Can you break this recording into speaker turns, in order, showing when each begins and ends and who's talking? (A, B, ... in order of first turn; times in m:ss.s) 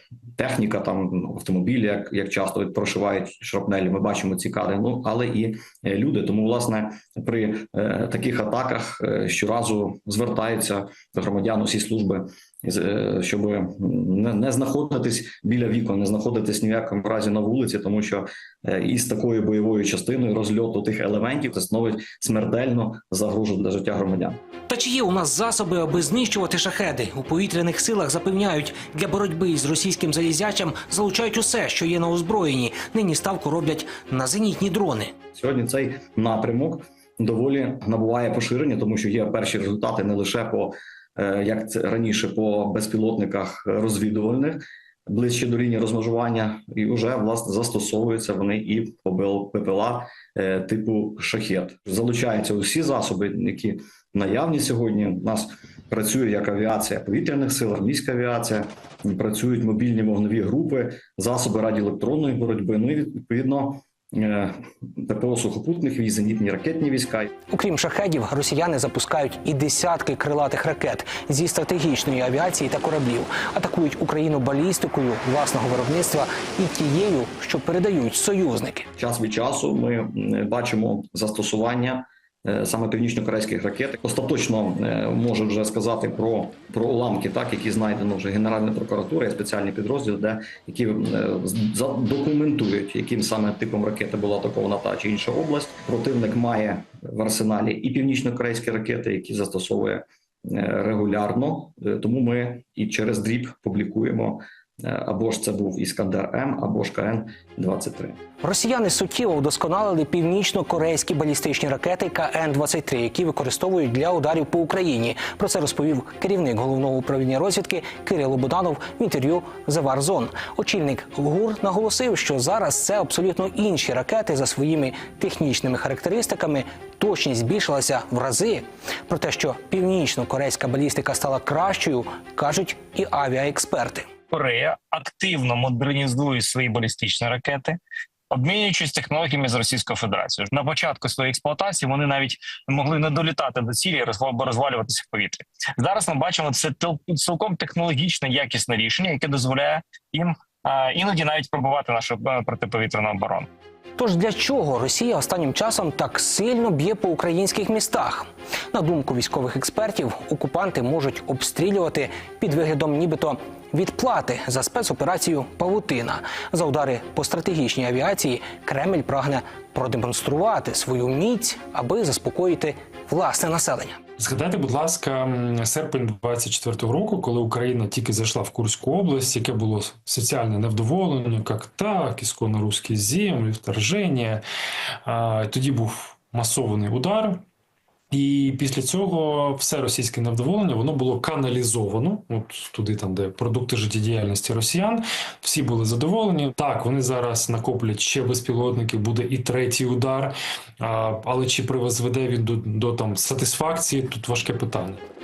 0:00.4-0:24.4 A
0:24.7-0:35.1 B
0:35.3-1:07.3 A
1:07.5-1:18.9 B
1:19.0-1:48.2 A
1:48.4-2:14.1 B
2:14.3-2:17.7 C
2:18.3-2:33.4 C
2:34.0-2:54.0 B
2:54.2-3:04.4 D
3:05.0-3:07.4 D
3:08.1-3:25.0 D